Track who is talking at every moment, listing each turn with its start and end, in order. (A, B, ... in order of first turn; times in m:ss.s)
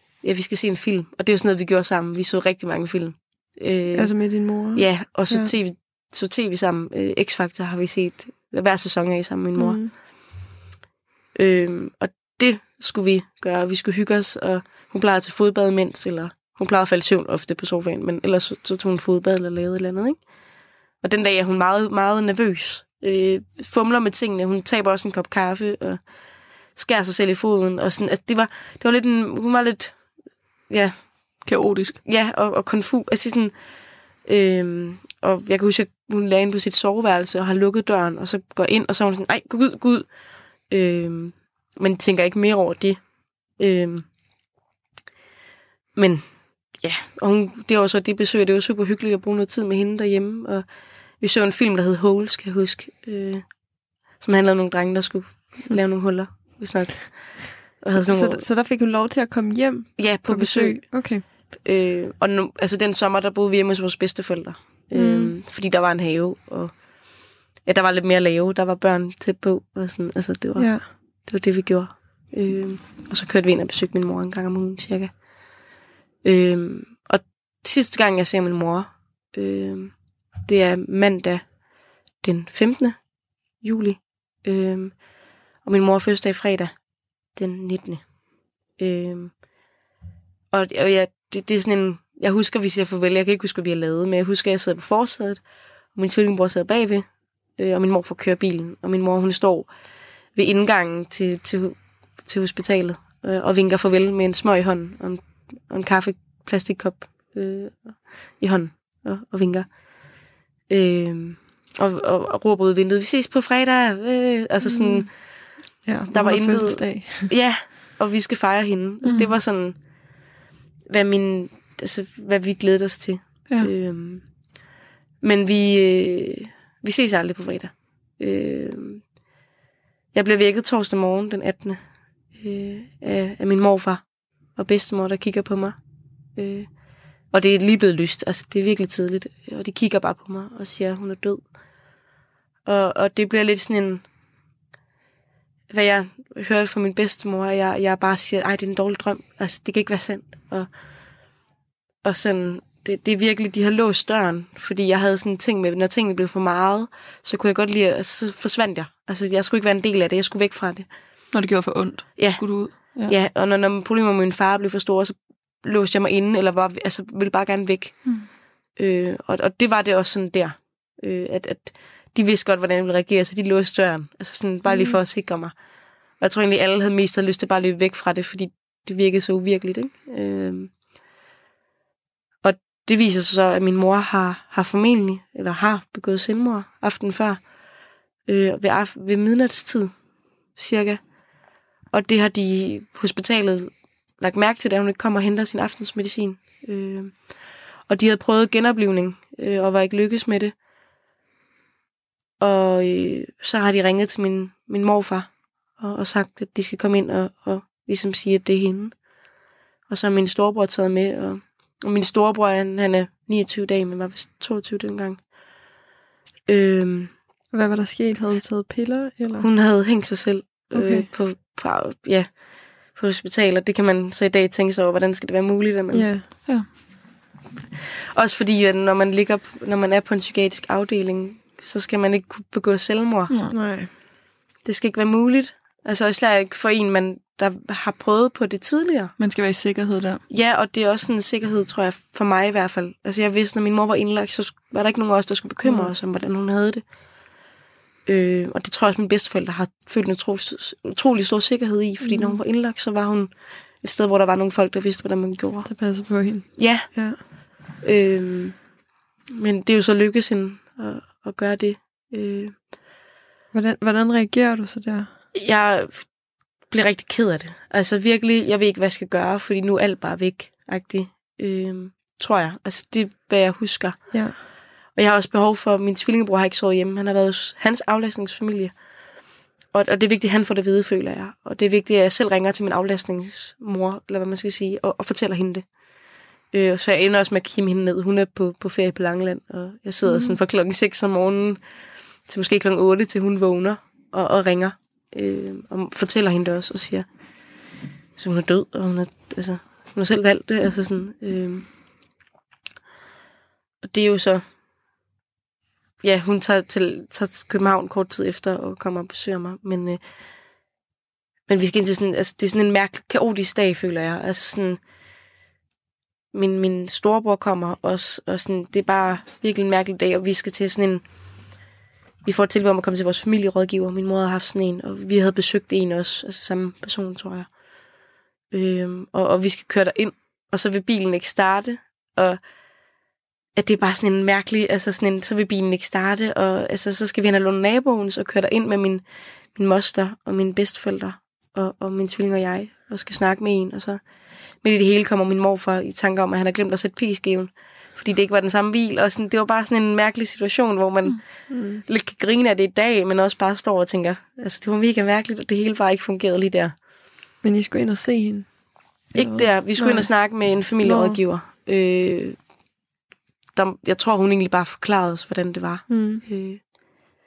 0:00.2-0:10.0 A
0:03.9-0:05.5 B
0:09.6-0:09.9 B
0:11.4-0:44.1 A
0:31.4-0:32.0 C
0:46.0-0:58.5 A
0:58.0-1:01.2 B
1:00.0-1:15.7 A
1:04.9-1:05.4 B
1:10.6-1:10.9 B
1:16.2-1:21.6 A
1:22.2-1:26.8 A
1:27.3-1:28.1 A
1:28.8-1:29.4 A
1:30.5-1:39.7 A
1:40.3-2:00.3 A
1:54.6-1:57.3 B
1:59.0-1:59.4 C
2:00.9-2:04.3 A
2:05.2-2:09.1 A
2:10.1-2:15.8 A
2:16.4-2:21.6 A
2:22.6-2:24.0 A
2:25.7-2:30.7 A
2:32.0-2:40.9 A
2:41.3-2:43.2 C
2:42.2-2:55.6 A
2:54.7-2:55.0 B
2:56.2-3:00.8 A
3:02.4-3:07.7 A
3:08.2-3:10.0 A
3:10.5-3:11.2 A
3:11.9-3:20.6 A
3:22.4-3:29.0 A
3:29.9-3:35.3 A
3:36.5-3:37.1 A
3:37.5-3:39.5 B
3:39.4-3:46.5 A
3:40.7-3:41.1 B
3:45.9-3:46.3 B
3:48.1-3:53.4 A
3:53.3-3:53.6 C
3:53.5-3:53.9 B
3:54.6-3:59.2 A
3:59.2-4:00.2 C
4:00.3-4:06.9 A
4:05.6-4:05.9 B
4:08.1-4:15.7 A
4:12.0-4:12.4 B
4:15.7-4:17.2 B
4:16.6-4:18.7 A
4:19.3-4:22.6 A
4:23.5-4:25.1 B
4:25.3-4:34.3 A
4:34.1-4:34.4 B
4:34.9-4:38.8 A
4:39.7-4:45.8 A
4:46.5-4:51.6 A
4:50.1-4:50.4 B
4:52.2-4:57.1 A
4:58.2-5:01.7 A
5:03.8-5:04.4 A
5:06.0-5:10.0 A
5:11.5-5:14.8 A
5:16.3-5:21.0 A
5:22.2-5:27.6 A
5:28.5-5:32.4 A
5:33.6-5:44.0 A
5:44.6-5:56.8 A
5:51.5-5:51.8 B
5:57.4-6:01.2 B
5:59.2-6:02.4 A
6:03.6-6:06.8 A
6:05.9-6:06.2 B